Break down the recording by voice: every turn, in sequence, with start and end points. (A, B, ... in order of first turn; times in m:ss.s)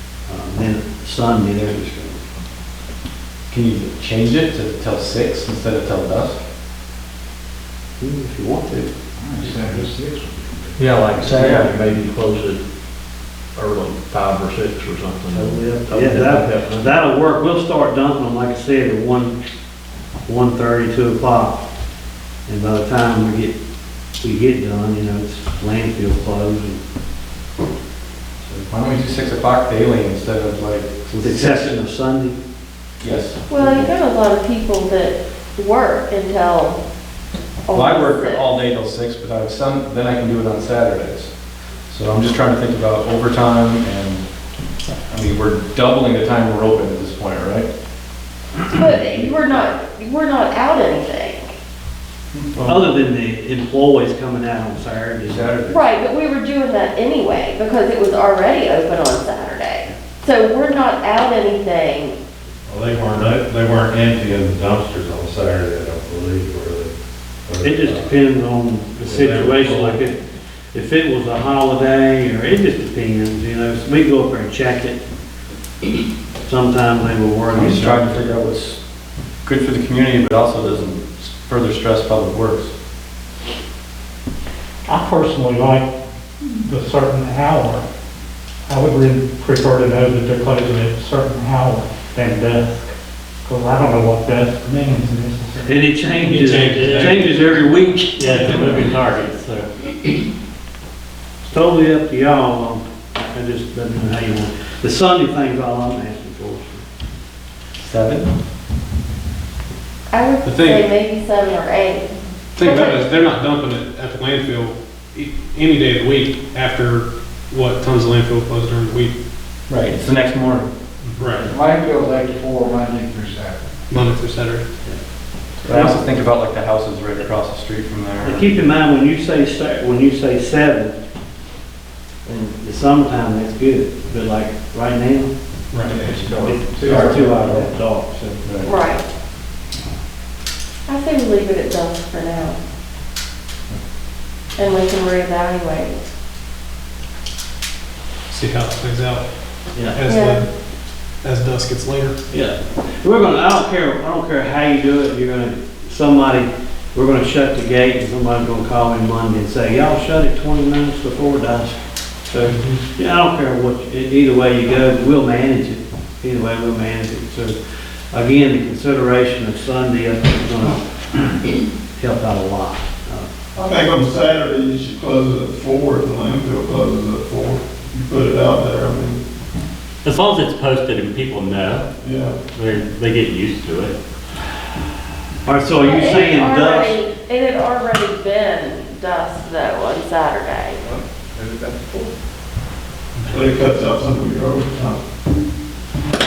0:00.3-0:02.2 A
0:03.5-0:06.4 B
0:08.0-0:09.9 A
0:09.2-0:11.2 C
0:10.8-0:12.6 D
0:11.3-0:11.7 B
0:13.5-0:16.8 D
0:15.3-0:19.4 A
0:20.3-0:21.6 A
0:22.5-0:23.5 A
0:24.2-0:26.8 A
0:28.4-0:31.6 B
0:31.2-0:32.4 A
0:33.0-0:33.9 B
0:33.5-0:36.8 E
0:37.6-0:38.4 E
0:37.7-0:41.3 B
0:41.9-0:44.2 B
0:45.1-0:47.7 B
0:48.7-0:51.5 E
0:52.6-0:55.8 A
0:55.7-1:02.2 E
1:02.6-1:06.9 F
1:07.4-1:08.2 F
1:07.6-1:10.2 A
1:09.0-1:10.0 F
1:10.7-1:15.0 A
1:16.4-1:18.2 A
1:17.5-1:18.8 B
1:19.4-1:22.7 B
1:24.8-1:25.9 G
1:26.4-1:27.8 G
1:28.7-1:32.9 G
1:33.4-1:35.9 G
1:35.6-1:38.8 A
1:36.3-1:37.2 H
1:36.5-1:37.4 I
1:38.1-1:39.9 I
1:38.3-1:38.7 H
1:41.4-1:46.8 A
1:47.8-1:48.3 B
1:50.1-1:52.1 E
1:50.4-1:50.9 H
1:52.6-1:59.1 H
1:52.6-1:53.0 E
1:59.7-2:00.7 B
2:01.1-2:01.5 H
2:01.4-2:03.7 C
2:03.9-2:04.6 H
2:05.6-2:08.6 B
2:05.7-2:06.0 A
2:08.2-2:11.0 A
2:12.2-2:15.3 A
2:15.7-2:16.1 H
2:15.9-2:18.4 A
2:16.0-2:16.3 D
2:18.4-2:18.7 B
2:18.6-2:19.0 E
2:20.9-2:22.6 E
2:24.6-2:26.0 E
2:28.3-2:29.2 H
2:29.7-2:30.0 A
2:29.9-2:30.4 H
2:30.0-2:30.4 E
2:31.2-2:32.1 H
2:32.3-2:41.8 A
2:42.3-2:47.6 A
2:48.1-2:51.4 A
2:51.9-2:53.3 A
2:53.6-2:53.8 E
2:53.6-2:59.2 J
3:00.0-3:01.8 I
3:02.0-3:02.3 J
3:02.5-3:03.9 I
3:05.4-3:07.0 A
3:05.8-3:10.8 E
3:13.3-3:15.0 J